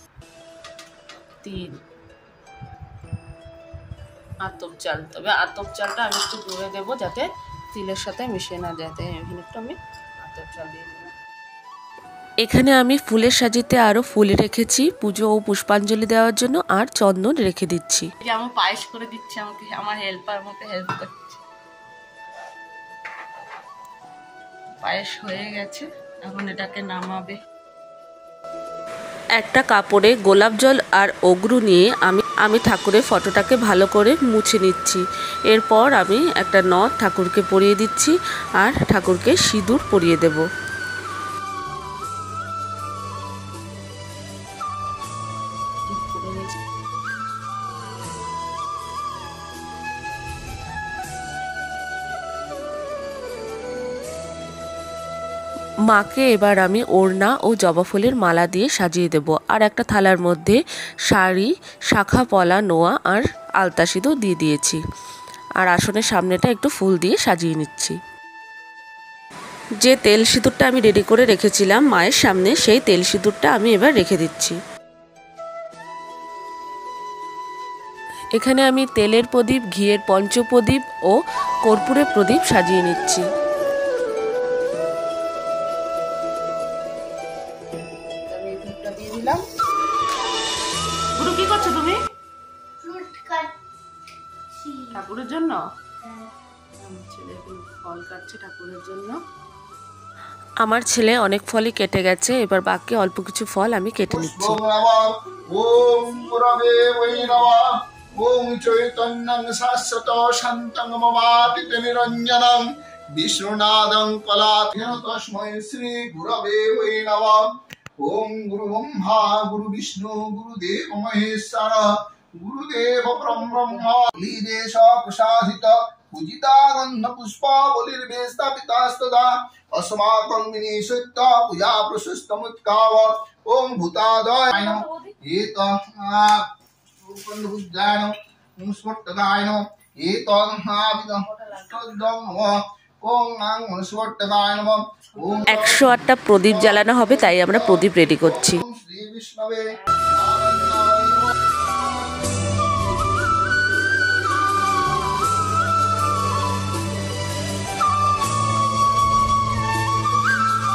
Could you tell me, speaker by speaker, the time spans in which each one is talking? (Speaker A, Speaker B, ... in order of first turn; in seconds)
Speaker A: 1.4-1.7, 4.4-11.1, 18.2-21.4, 24.8-27.4, 45.9-46.5, 71.8-72.2, 88.3-89.4, 91.2-92.0, 92.9-93.5, 94.9-95.6, 96.8-99.2, 134.5-135.1, 141.2-141.9, 145.1-148.1
Speaker B: 12.4-18.1, 29.4-35.0, 35.5-40.4, 55.9-60.6, 61.1-64.8, 65.6-68.0, 69.8-74.5, 78.4-83.2, 100.6-104.6, 145.5-148.6
Speaker C: 104.1-117.5, 118.0-121.9, 122.4-136.4, 137.0-151.3